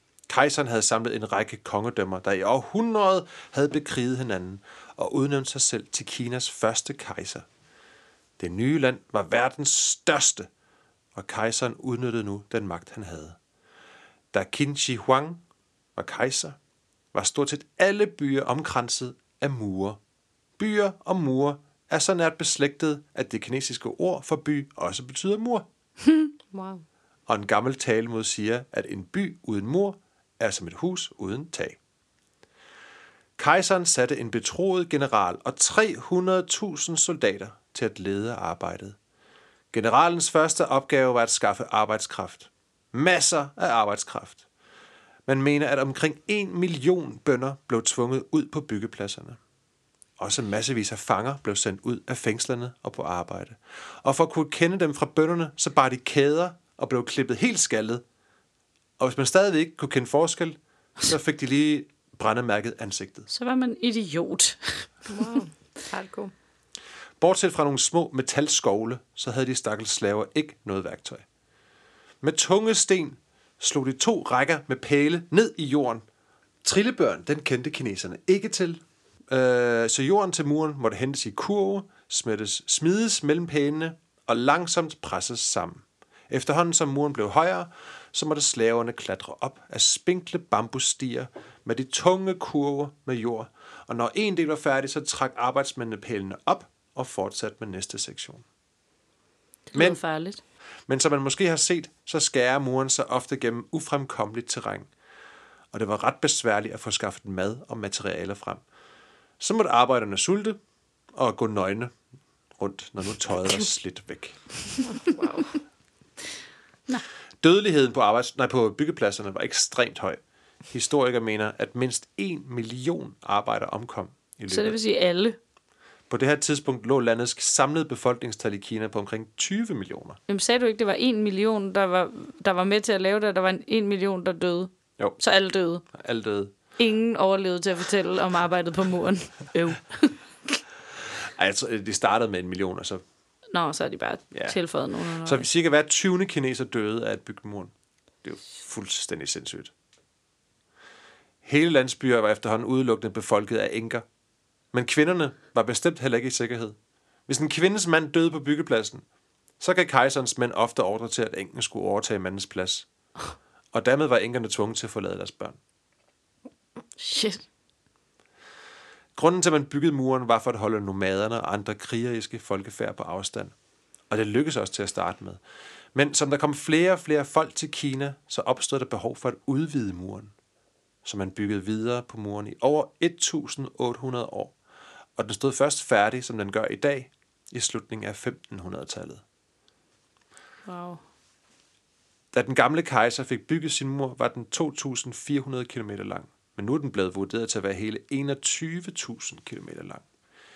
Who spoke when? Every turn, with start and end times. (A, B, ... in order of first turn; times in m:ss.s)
0:00.3-0:07.5 A
0:08.4-0:10.5 A
0:11.2-0:13.4 A
0:14.3-0:15.4 A
0:16.0-0:16.6 A
0:17.1-0:20.0 A
0:20.6-0:25.7 A
0:26.5-0:26.8 B
0:27.3-0:31.8 A
0:33.4-0:39.0 A
0:39.7-0:44.4 A
0:45.3-0:49.4 A
0:50.2-0:58.0 A
0:59.0-1:03.3 A
1:03.3-1:05.3 C
1:05.1-1:06.3 B
1:07.2-1:11.2 A
1:12.2-1:16.0 A
1:16.6-1:38.4 A
1:39.7-1:40.4 C
1:39.7-1:40.0 A
1:40.9-1:44.9 A
1:45.7-1:48.6 A
1:49.4-1:50.6 A
1:51.2-1:51.9 A
1:52.6-1:54.4 A
1:54.9-1:55.5 B
1:57.4-2:00.2 A
2:00.7-2:04.8 A
2:04.5-2:05.4 C
2:06.1-2:10.2 A
2:10.3-2:15.8 C
2:15.9-2:16.5 A
2:16.8-2:20.6 C
2:21.1-2:23.0 A
2:23.5-2:25.4 C
2:24.3-2:24.6 A
2:25.2-2:27.7 A
2:28.2-2:29.7 A
2:31.4-2:34.0 A
2:34.7-2:36.8 A
2:37.3-2:39.0 A
2:39.6-2:42.9 A
2:43.7-2:45.6 A
2:47.0-2:47.4 C
2:49.2-2:53.5 A
2:54.1-2:55.4 A
2:55.9-3:00.3 A
3:01.0-3:04.6 A
3:05.2-3:09.2 A
3:10.7-3:11.0 C
3:12.3-3:20.0 A